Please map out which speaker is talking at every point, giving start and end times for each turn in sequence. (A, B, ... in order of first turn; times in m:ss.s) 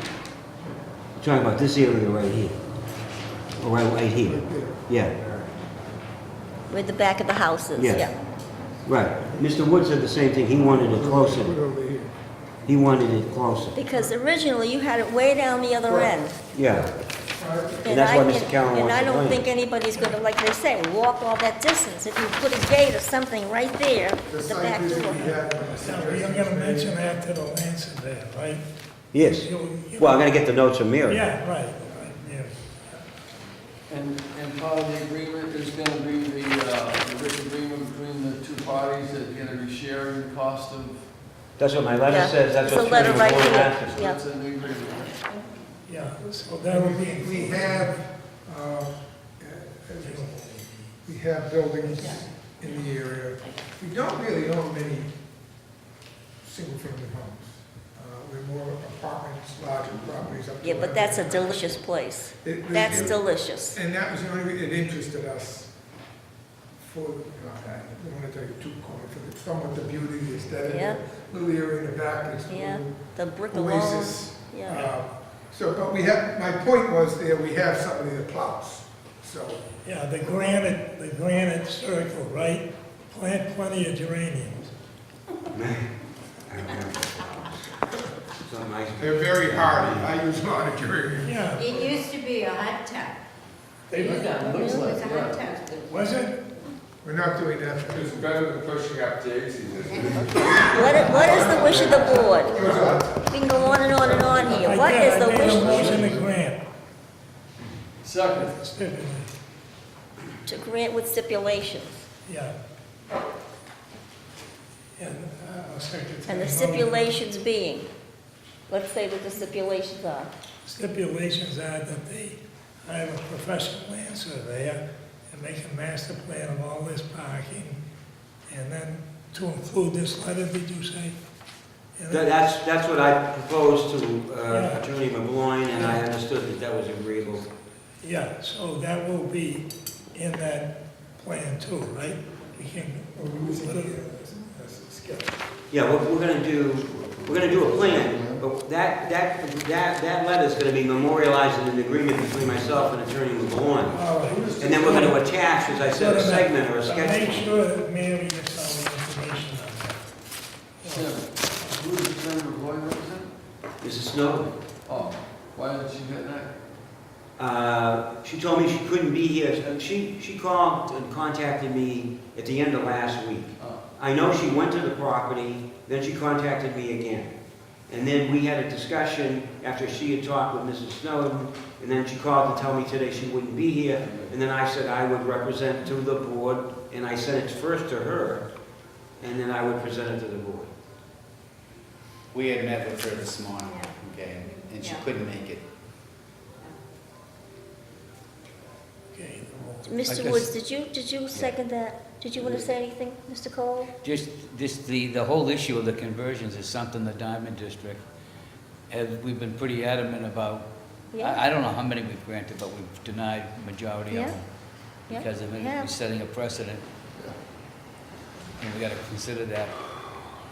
0:01.2-0:02.6 A
0:03.6-0:05.1 A
0:04.3-0:04.8 B
0:06.7-0:08.2 C
0:07.8-0:08.1 A
0:08.9-0:11.6 A
0:10.5-0:12.1 B
0:12.7-0:13.8 A
0:13.7-0:16.4 C
0:15.8-0:16.1 B
0:16.5-0:16.9 A
0:17.4-0:18.0 B
0:17.8-0:25.4 C
0:17.9-0:19.4 A
0:19.9-0:20.2 D
0:24.3-0:26.9 B
0:25.3-0:28.6 D
0:29.1-0:31.2 A
0:29.3-0:30.4 D
0:31.1-0:32.5 D
0:33.9-0:41.1 E
0:41.6-0:44.0 A
0:42.1-0:44.2 C
0:42.5-0:45.4 E
0:45.9-0:47.9 D
0:46.7-0:50.3 B
0:50.0-0:50.9 D
0:51.0-0:55.1 B
0:56.4-1:01.8 B
1:00.6-1:03.8 C
1:02.4-1:05.7 B
1:06.8-1:13.0 B
1:10.6-1:11.0 C
1:12.5-1:14.9 C
1:13.5-1:19.6 B
1:19.8-1:24.7 D
1:25.5-1:25.9 A
1:26.5-1:27.5 A
1:28.4-1:30.1 A
1:29.0-1:31.5 B
1:31.2-1:31.6 D
1:31.6-1:33.2 F
1:33.9-1:35.9 E
1:34.0-1:35.8 F
1:35.9-1:36.5 D
1:37.0-1:38.2 B
1:37.9-1:43.2 G
1:39.9-1:40.8 F
1:40.3-1:42.7 C
1:40.8-1:41.1 E
1:41.2-1:43.4 B
1:43.2-1:46.0 C
1:43.8-1:44.8 G
1:44.6-1:46.6 D
1:44.8-1:45.2 E
1:45.4-1:46.2 G
1:45.8-1:46.1 E
1:48.0-1:48.5 E
1:48.4-1:49.3 D
1:50.5-1:52.0 C
1:52.3-1:52.5 D
1:55.0-1:57.2 D
1:56.3-1:57.9 C
1:58.7-2:00.3 C
2:00.6-2:07.8 D
2:08.5-2:11.2 D
2:12.0-2:12.3 D
2:12.1-2:17.5 A
2:14.5-2:14.8 D
2:15.7-2:16.0 D
2:18.0-2:24.0 D
2:23.2-2:25.4 B
2:25.7-2:34.0 A
2:27.3-2:28.2 G
2:33.9-2:40.0 D
2:34.2-2:35.2 E
2:34.5-2:37.6 A
2:40.8-2:43.3 E
2:43.8-2:44.6 A
2:44.3-2:46.6 E
2:47.4-2:57.3 A
2:53.6-2:53.8 E
2:57.9-3:08.5 A
3:09.2-3:10.7 A
3:12.3-3:15.6 H
3:13.6-3:15.1 F
3:19.1-3:20.0 D
3:19.9-3:23.9 C
3:20.1-3:20.5 I
3:24.0-3:28.0 I
3:28.9-3:34.5 I
3:31.1-3:31.4 C
3:34.1-3:34.4 C
3:35.1-3:36.0 C
3:35.1-3:36.8 I
3:38.6-3:39.7 I